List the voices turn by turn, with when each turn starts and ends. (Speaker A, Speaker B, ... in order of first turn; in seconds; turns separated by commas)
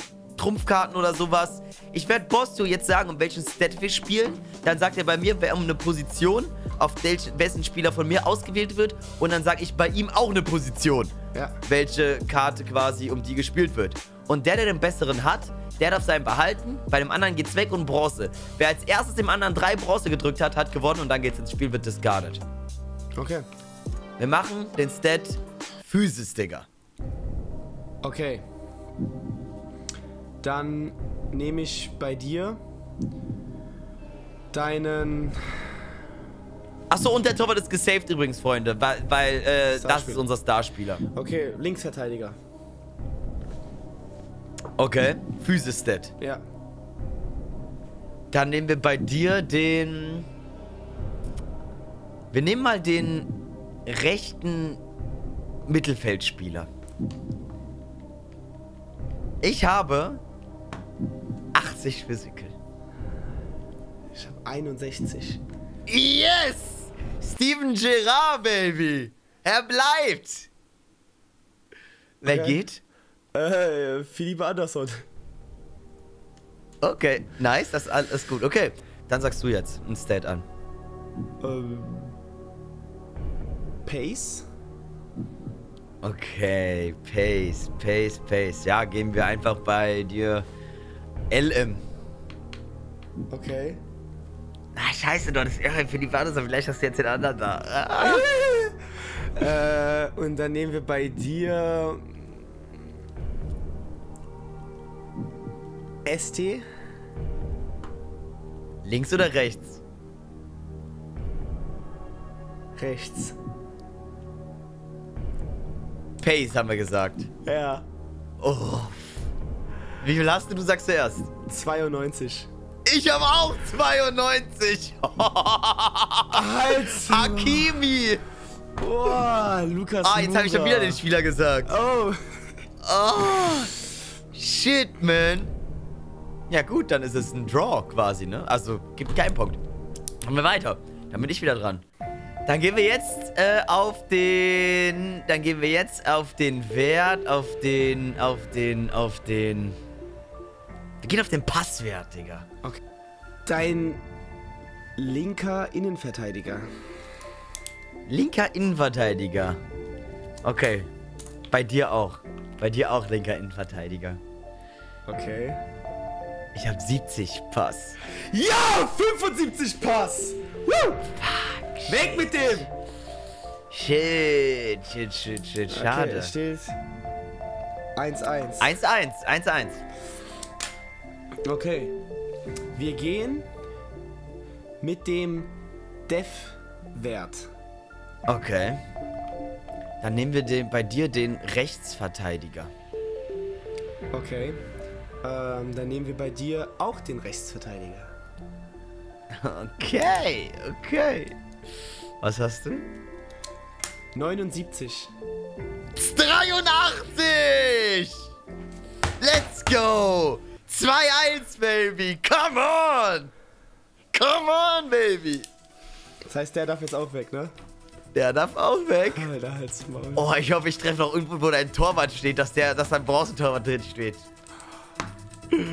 Speaker A: 0.4-11.1, Speaker A: 11.7-22.4, Speaker B: 23.2-23.4, Speaker A: 24.2-26.7, Speaker B: 28.0-28.4, Speaker B: 30.4-32.6, Speaker B: 34.5-35.7, Speaker A: 36.9-41.0, Speaker B: 39.8-40.3, Speaker B: 41.1-42.4, Speaker A: 44.8-46.1, Speaker A: 48.3-50.3, Speaker A: 52.3-53.3, Speaker A: 53.9-54.8, Speaker A: 55.7-56.7, Speaker A: 59.4-60.2, Speaker A: 61.5-62.5, Speaker B: 64.1-65.4, Speaker A: 65.9-70.5, Speaker A: 72.2-72.8, Speaker B: 72.2-72.6, Speaker B: 73.3-75.0, Speaker A: 76.8-80.4, Speaker B: 81.4-82.2, Speaker B: 83.8-84.5, Speaker A: 86.0-90.5, Speaker A: 91.3-91.8, Speaker B: 93.3-93.8, Speaker A: 94.8-98.3, Speaker B: 98.0-98.7, Speaker B: 99.4-102.1, Speaker B: 106.0-106.6, Speaker A: 108.8-109.8, Speaker B: 112.8-113.3, Speaker A: 116.2-117.3, Speaker B: 117.4-117.8, Speaker A: 118.4-119.2, Speaker A: 120.0-121.3, Speaker B: 121.5-122.5, Speaker A: 122.9-128.2, Speaker B: 126.3-127.7, Speaker B: 128.8-131.0, Speaker A: 130.0-131.8, Speaker B: 131.7-132.2, Speaker A: 132.8-133.7, Speaker A: 134.3-135.5, Speaker A: 136.5-139.6, Speaker A: 140.2-141.8, Speaker A: 142.4-149.8, Speaker A: 151.0-152.4, Speaker B: 153.4-154.0, Speaker B: 155.0-156.7, Speaker A: 158.1-159.6, Speaker A: 160.4-160.9, Speaker A: 161.5-164.2, Speaker B: 165.1-165.6, Speaker A: 166.6-168.0, Speaker B: 168.3-171.0, Speaker A: 171.1-172.6, Speaker B: 171.9-172.7, Speaker A: 173.7-176.3, Speaker B: 175.7-176.8, Speaker B: 177.9-178.7, Speaker A: 178.6-179.8, Speaker B: 181.4-181.9, Speaker B: 182.7-183.5, Speaker B: 184.8-185.5, Speaker B: 186.1-187.5, Speaker A: 188.3-188.8, Speaker A: 190.0-192.7, Speaker B: 194.1-194.6, Speaker B: 195.2-198.1, Speaker A: 199.3-201.3, Speaker A: 202.2-202.9, Speaker B: 204.2-205.1, Speaker A: 205.9-208.3, Speaker A: 209.2-213.3, Speaker A: 214.1-215.4, Speaker B: 216.3-217.5, Speaker A: 218.1-219.3, Speaker B: 219.1-220.2, Speaker A: 220.2-224.2